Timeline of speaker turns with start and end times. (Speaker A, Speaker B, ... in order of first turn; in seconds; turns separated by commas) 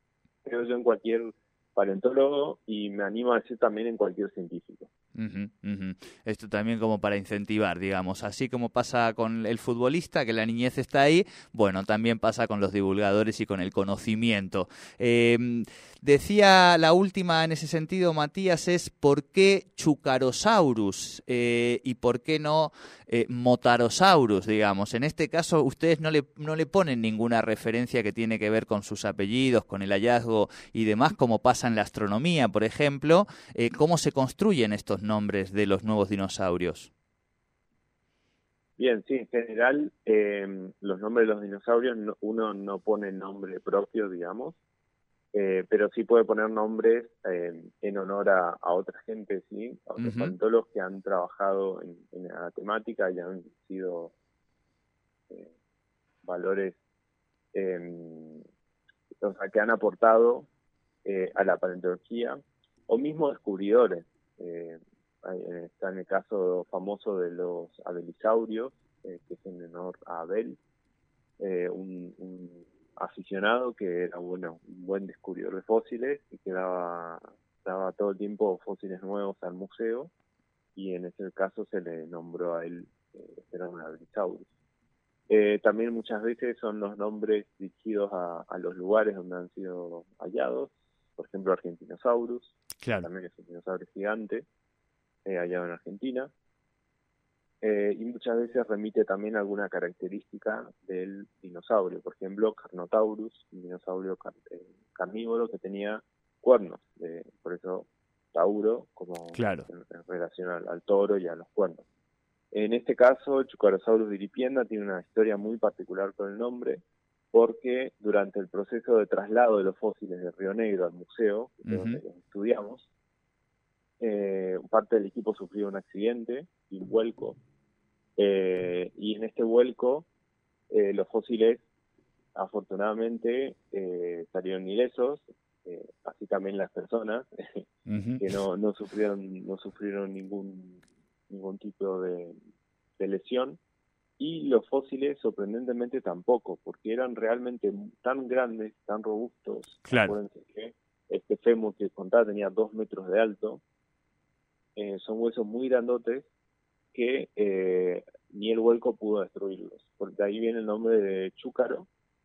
Speaker A: 0.5-4.9, Speaker B: 5.2-36.9, Speaker A: 38.8-44.6, Speaker A: 45.3-54.1, Speaker B: 50.0-50.4, Speaker A: 56.2-56.8, Speaker A: 57.5-58.4, Speaker A: 59.2-60.5, Speaker A: 61.0-70.6, Speaker A: 71.4-80.1, Speaker A: 80.8-84.5, Speaker A: 85.3-94.5, Speaker B: 92.8-93.1, Speaker A: 95.2-96.3, Speaker A: 97.6-111.8, Speaker B: 109.3-109.7, Speaker A: 112.5-122.9, Speaker B: 121.7-122.0, Speaker A: 124.0-127.4, Speaker A: 128.2-130.1, Speaker A: 130.7-131.6, Speaker A: 132.3-137.7, Speaker B: 137.9-138.3, Speaker A: 138.2-142.4, Speaker A: 143.0-143.6, Speaker A: 144.2-153.6, Speaker B: 149.9-150.2, Speaker A: 154.8-156.3, Speaker A: 156.9-161.9